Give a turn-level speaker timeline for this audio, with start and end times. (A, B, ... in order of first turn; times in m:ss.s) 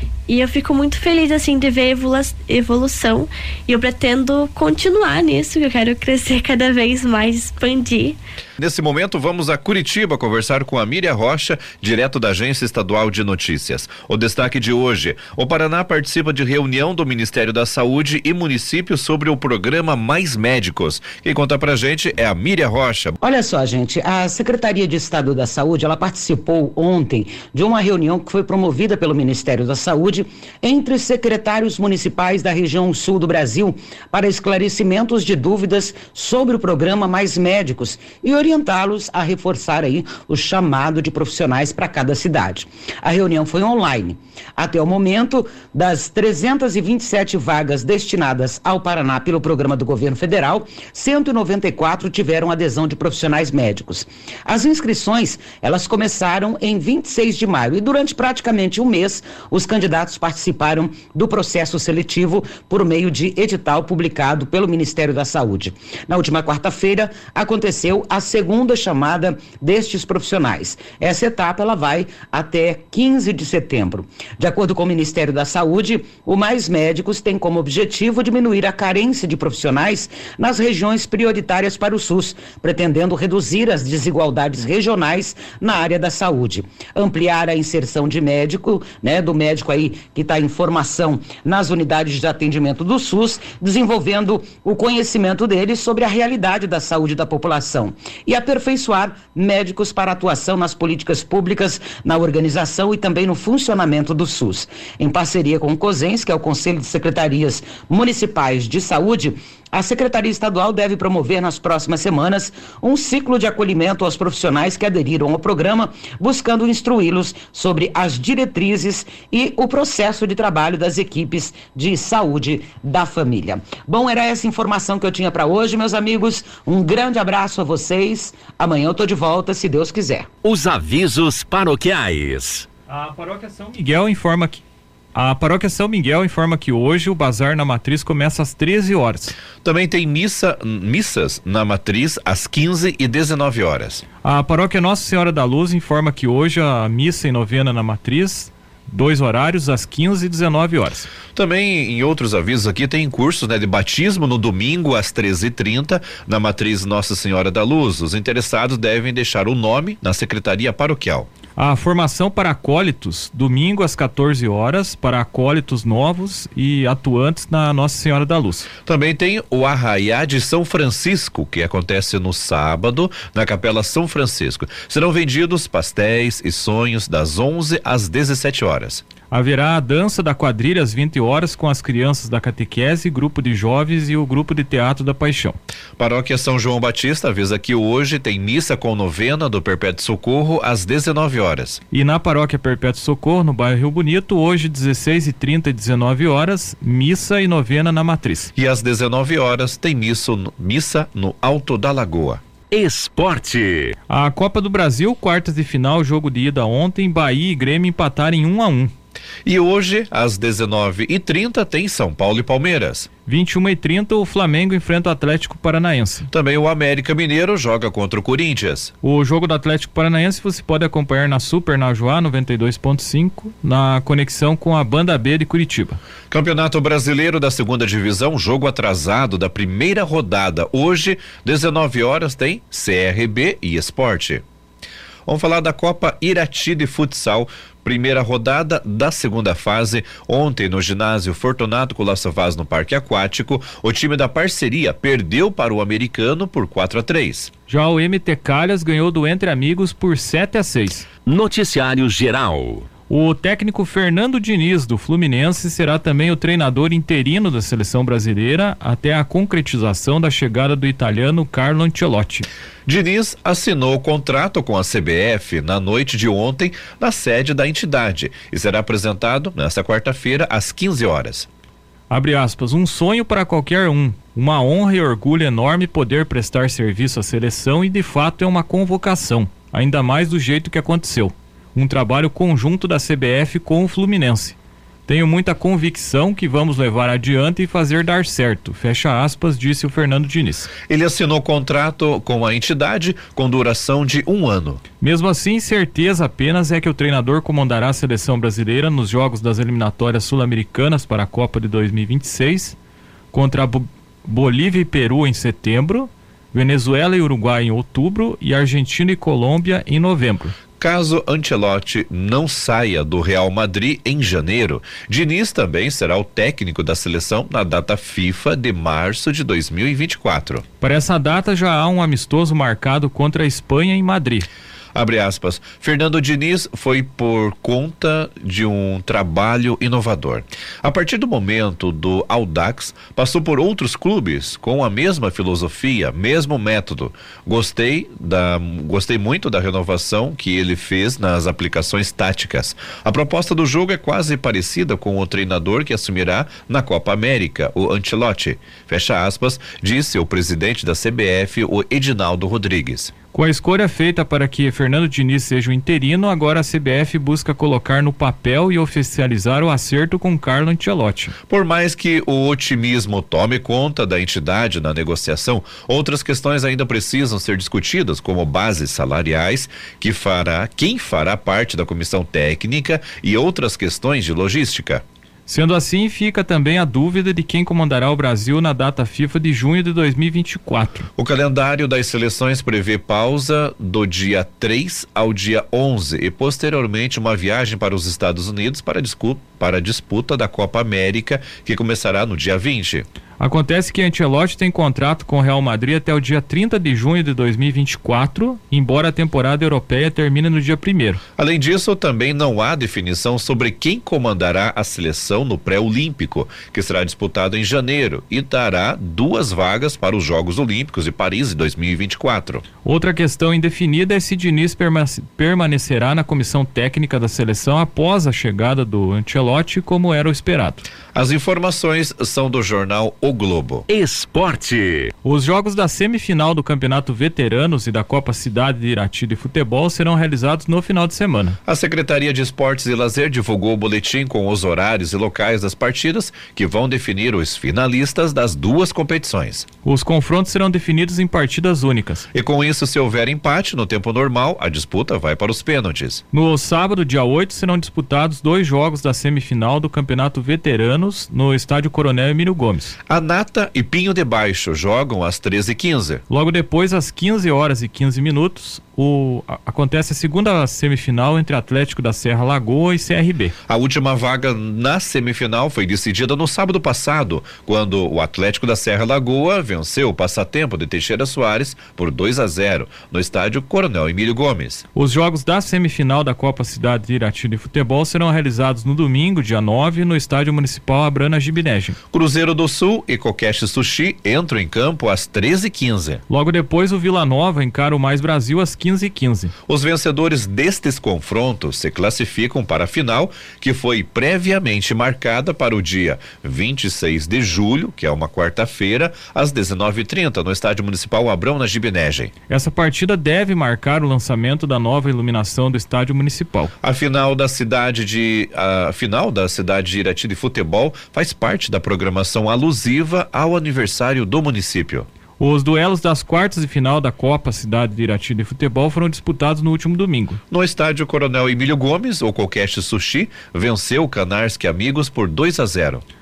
0:00.3-0:08.2 A
0:08.6-0:23.2 B
0:23.2-2:10.3 C
2:10.4-2:12.7 D
2:12.9-2:14.6 E
2:15.1-2:19.4 E
2:19.6-2:24.0 B
2:24.2-2:31.1 E
2:31.3-2:41.3 B
2:41.6-2:48.7 E
2:48.8-2:59.0 B
2:59.3-3:05.6 E
3:06.0-3:11.8 B
3:11.9-3:18.5 E
3:18.6-3:22.4 B
3:22.7-3:23.9 D
3:24.1-3:28.9 E
3:29.5-3:33.1 B
3:33.2-3:36.3 E
3:36.3-3:38.9 B
3:39.0-3:46.0 E
3:46.3-3:54.4 B
3:55.2-4:07.5 B
4:07.7-4:11.1 E
4:11.2-4:12.9 D
4:13.1-4:22.5 E
4:22.9-4:31.5 B
4:32.1-4:44.6 E
4:45.1-4:50.7 E
4:50.9-4:54.8 B
4:55.0-5:02.8 E
5:03.3-5:10.6 E
5:10.8-5:20.6 B
5:20.8-5:24.5 E
5:25.0-5:53.1 B
5:53.3-6:01.4 E
6:01.5-6:15.0 B
6:15.5-6:21.1 E
6:21.2-6:33.0 B
6:33.4-6:41.2 E
6:41.4-6:52.6 B
6:52.8-7:00.9 E
7:01.1-7:03.9 B
7:03.9-7:05.1 D
7:05.2-7:11.6 E
7:11.6-7:19.7 B
7:19.8-7:22.3 E
7:22.3-7:26.2 B
7:26.3-7:33.0 E
7:33.1-7:36.2 B
7:36.3-7:43.5 E
7:43.7-7:54.8 B
7:55.0-8:02.0 E
8:02.1-8:06.2 B
8:06.3-8:09.5 E
8:09.7-8:22.3 B
8:22.5-8:26.7 E
8:26.8-8:35.1 B
8:35.4-8:40.4 E
8:40.5-8:46.0 B